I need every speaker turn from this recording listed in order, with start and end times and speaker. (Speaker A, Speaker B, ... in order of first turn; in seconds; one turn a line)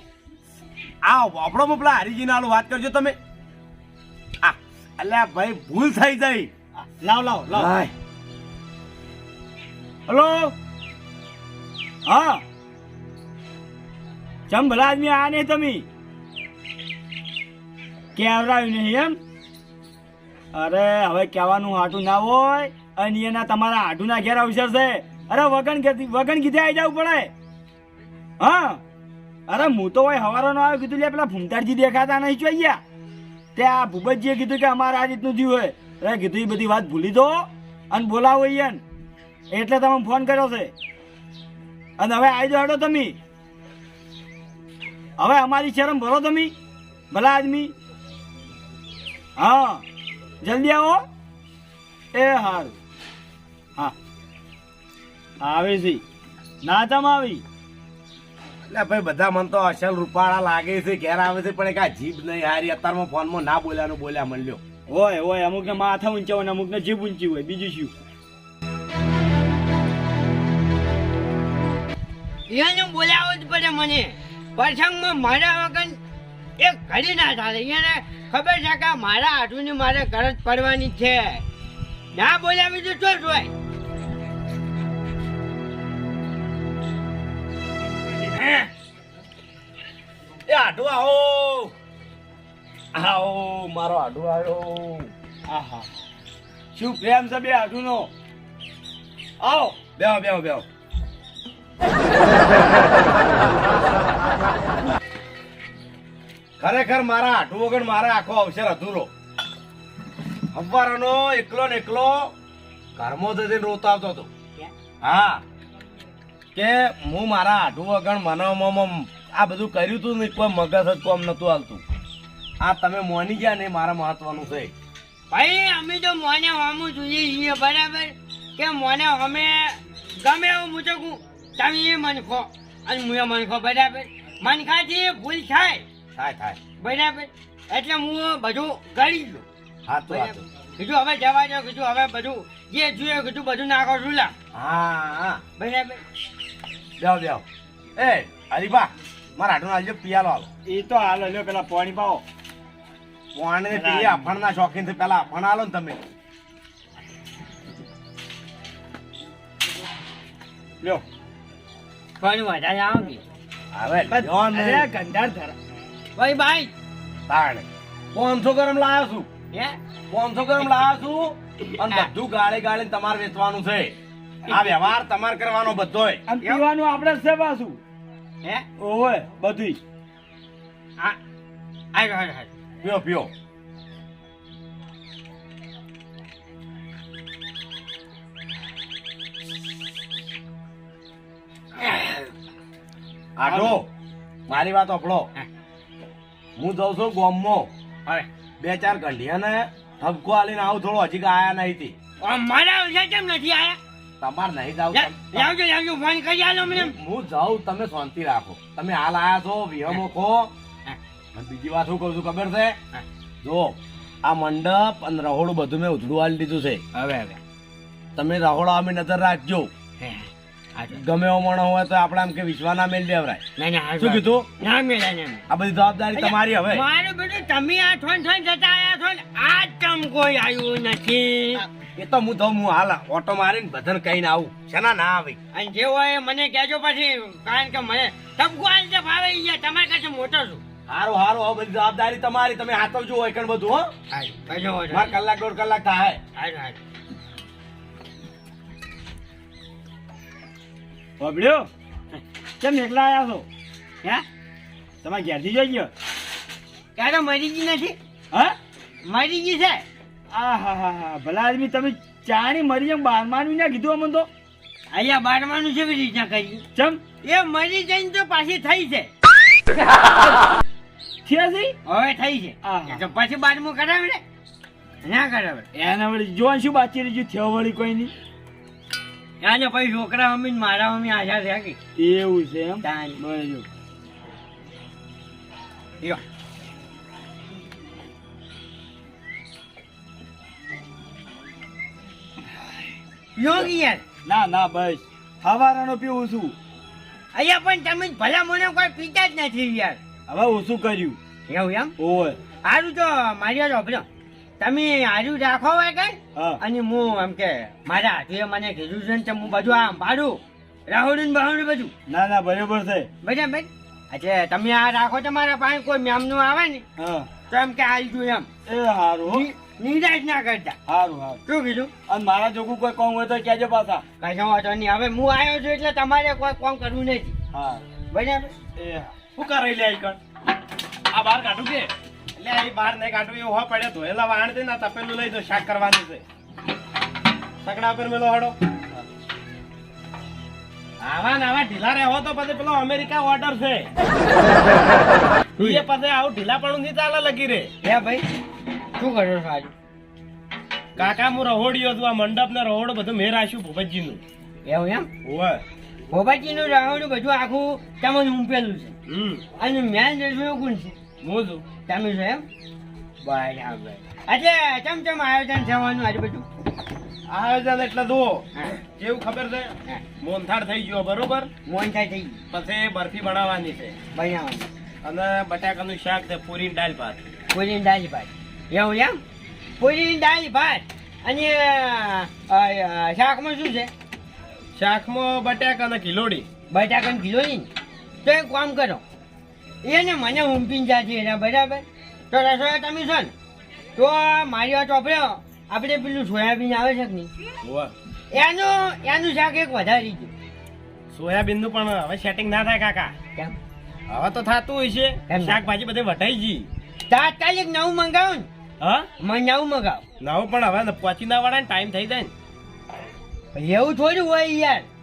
Speaker A: 1.0-3.1
Speaker A: 4.4-6.5
Speaker B: 6.9-7.7
Speaker A: 7.5-7.9
Speaker B: 10.1-10.5
Speaker B: 12.1-12.4
Speaker B: 14.5-15.8
Speaker B: 18.1-19.2
Speaker B: 20.5-27.3
Speaker B: 28.4-28.8
Speaker B: 29.5-32.8
Speaker B: 33.5-38.8
Speaker B: 39.5-40.7
Speaker B: 42.0-43.2
Speaker B: 45.2-46.5
Speaker B: 47.1-47.7
Speaker B: 49.4-49.8
Speaker B: 50.4-51.0
Speaker B: 52.1-52.7
Speaker B: 55.4-56.0
Speaker B: 56.6-57.4
Speaker A: 58.7-64.6
Speaker B: 64.9-67.9
Speaker C: 72.5-76.0
Speaker C: 76.6-81.4
Speaker C: 82.2-83.5
Speaker C: 88.2-88.7
Speaker A: 90.5-91.7
Speaker A: 92.9-95.1
Speaker B: 95.5-95.9
Speaker B: 96.7-98.1
Speaker B: 99.4-99.8
Speaker A: 100.0-100.6
Speaker A: 103.6-104.7
Speaker A: 106.6-109.1
Speaker A: 110.5-112.3
Speaker A: 113.0-114.3
Speaker A: 115.0-115.4
Speaker A: 116.5-121.8
Speaker A: 122.6-124.7
Speaker C: 125.3-135.8
Speaker A: 136.2-136.6
Speaker C: 136.8-139.4
Speaker A: 139.8-140.4
Speaker C: 140.1-144.3
Speaker A: 144.5-145.4
Speaker C: 145.6-146.0
Speaker A: 147.0-147.4
Speaker A: 148.0-150.5
Speaker B: 150.7-152.2
Speaker A: 153.3-156.0
Speaker B: 153.7-154.3
Speaker C: 162.2-163.2
Speaker A: 163.7-164.9
Speaker B: 164.1-165.5
Speaker C: 166.2-166.7
Speaker A: 167.3-169.3
Speaker A: 170.1-173.9
Speaker A: 174.5-176.2
Speaker B: 176.3-177.8
Speaker B: 178.8-179.8
Speaker C: 181.9-182.5
Speaker A: 182.8-183.3
Speaker C: 191.8-192.3
Speaker A: 193.4-193.8
Speaker A: 194.5-195.3
Speaker A: 196.6-197.7
Speaker A: 198.6-201.9
Speaker C: 202.2-203.8
Speaker A: 204.2-205.5
Speaker C: 204.9-206.9
Speaker A: 206.7-210.5
Speaker A: 211.3-212.8
Speaker A: 213.4-216.8
Speaker C: 216.9-217.4
Speaker A: 218.1-219.7
Speaker C: 220.0-221.0
Speaker A: 220.9-223.4
Speaker C: 223.6-225.4
Speaker A: 224.0-224.5
Speaker A: 225.5-226.8
Speaker C: 226.2-231.7
Speaker A: 231.8-235.4
Speaker C: 235.5-240.6
Speaker A: 240.9-243.9
Speaker C: 244.1-245.1
Speaker A: 244.9-246.2
Speaker C: 246.3-246.8
Speaker B: 251.2-251.7
Speaker B: 252.6-253.4
Speaker B: 255.0-255.9
Speaker C: 257.0-257.9
Speaker C: 259.0-259.8
Speaker B: 260.3-264.3
Speaker C: 264.9-266.6
Speaker B: 266.7-267.0
Speaker C: 267.2-269.1
Speaker B: 271.2-271.8
Speaker C: 271.9-274.2
Speaker B: 272.6-273.0
Speaker C: 275.0-275.6
Speaker B: 275.7-278.1
Speaker C: 279.4-281.8
Speaker B: 281.9-283.7
Speaker C: 282.8-283.2
Speaker C: 293.4-294.0
Speaker B: 294.2-296.6
Speaker C: 297.3-300.0
Speaker B: 300.3-301.2
Speaker C: 301.5-301.9
Speaker B: 302.0-302.4
Speaker C: 302.6-304.1
Speaker C: 304.6-311.9
Speaker B: 306.3-306.6
Speaker B: 312.1-313.1
Speaker C: 313.2-316.8
Speaker B: 317.0-317.3
Speaker C: 317.5-318.5
Speaker B: 318.7-319.4
Speaker C: 319.3-320.8
Speaker B: 320.9-321.4
Speaker C: 321.4-321.9
Speaker B: 322.1-324.0
Speaker C: 324.2-327.4
Speaker B: 327.5-327.8
Speaker C: 328.1-328.5
Speaker B: 328.8-329.1
Speaker D: 329.4-330.2
Speaker D: 331.1-336.2
Speaker D: 337.6-338.5
Speaker D: 341.0-343.9
Speaker C: 345.6-345.8
Speaker D: 345.6-347.7
Speaker C: 347.8-348.2
Speaker C: 349.0-349.7
Speaker D: 351.0-354.2
Speaker C: 354.6-355.1
Speaker D: 355.2-355.6
Speaker C: 356.1-358.9
Speaker D: 359.1-359.4
Speaker C: 359.6-360.9
Speaker D: 361.2-361.6
Speaker C: 361.9-362.4
Speaker C: 363.2-366.5
Speaker D: 367.3-371.5
Speaker C: 371.6-372.4
Speaker D: 372.5-373.9
Speaker C: 374.1-374.7
Speaker D: 375.0-377.2
Speaker C: 377.5-379.2
Speaker C: 379.8-383.9
Speaker D: 384.8-386.5
Speaker C: 386.7-387.7
Speaker C: 388.2-389.0
Speaker C: 389.8-393.3
Speaker C: 393.9-397.3
Speaker D: 397.6-397.9
Speaker C: 398.3-400.3
Speaker D: 401.1-403.1
Speaker D: 404.1-406.7
Speaker C: 405.3-405.6
Speaker C: 407.1-408.5
Speaker D: 408.8-409.1
Speaker C: 409.2-410.0
Speaker D: 410.2-412.3
Speaker C: 413.5-414.9